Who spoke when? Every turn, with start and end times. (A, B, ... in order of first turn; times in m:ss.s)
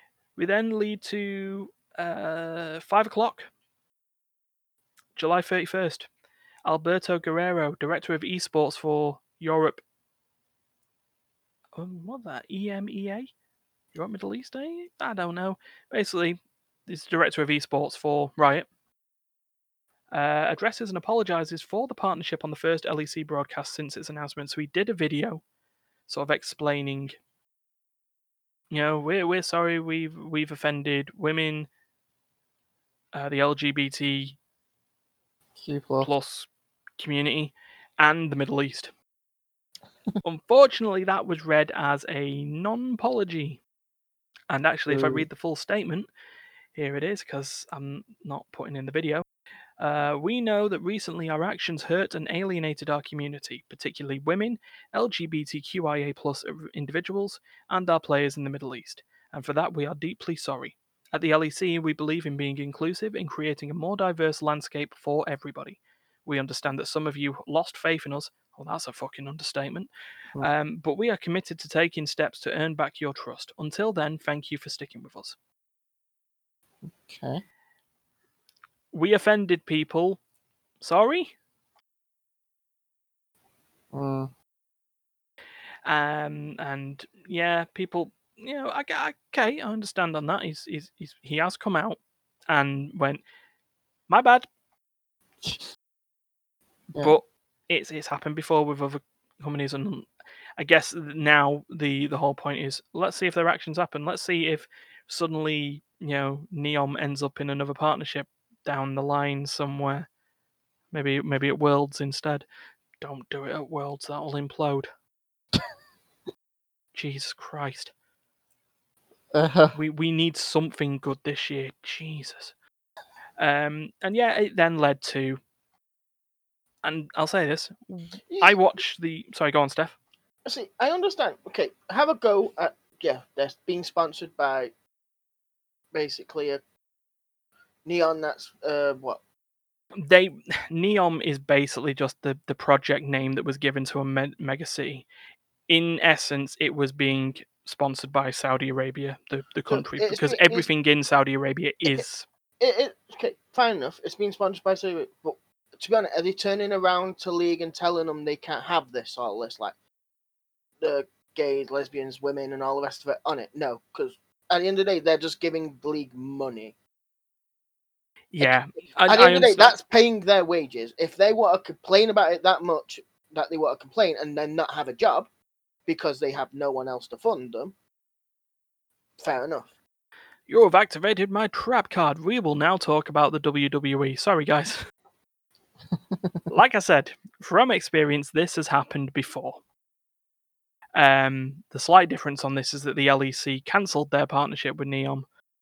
0:00.4-0:03.5 A
0:05.2-0:06.1 A
0:06.6-0:09.8 A
0:11.8-0:13.3 A
0:13.9-0:18.7 A
0:20.1-0:25.4 A
0:26.1-0:27.2 A
0:28.7-0:31.7 A
0:33.1-0:34.4 A
0:35.6-0:36.1 B
0:36.0-0:38.9 A
0:40.2-0:43.6 A
0:44.5-0:46.1 A
0:44.9-0:45.3 B
0:46.7-0:49.2 A
0:49.8-1:15.4 A
1:16.9-1:17.4 B
1:18.9-1:20.2 A
1:20.8-1:21.4 A
1:23.9-1:24.3 B
1:25.8-1:33.2 A
1:34.1-1:34.5 A
1:35.4-1:35.7 B
1:36.9-1:37.2 B
1:37.0-1:50.1 A
1:50.9-1:52.4 A
1:53.0-1:54.9 A
1:56.9-1:57.9 A
1:59.3-1:59.8 B
1:59.7-2:02.5 A
2:03.4-2:05.4 A
2:06.8-2:10.0 A
2:08.3-2:08.6 C
2:10.4-2:14.7 C
2:15.9-2:16.6 C
2:17.8-2:19.2 C
2:20.0-2:25.1 A
2:25.7-2:32.2 A
2:29.7-2:30.7 C
2:32.6-2:39.8 C
2:40.8-2:46.8 C
2:48.3-2:49.8 A
2:48.4-2:55.3 C
2:55.8-2:57.7 C
2:59.2-2:59.8 C
3:00.5-3:04.8 A
3:05.9-3:06.4 B
3:06.5-3:09.6 A
3:10.9-3:15.3 A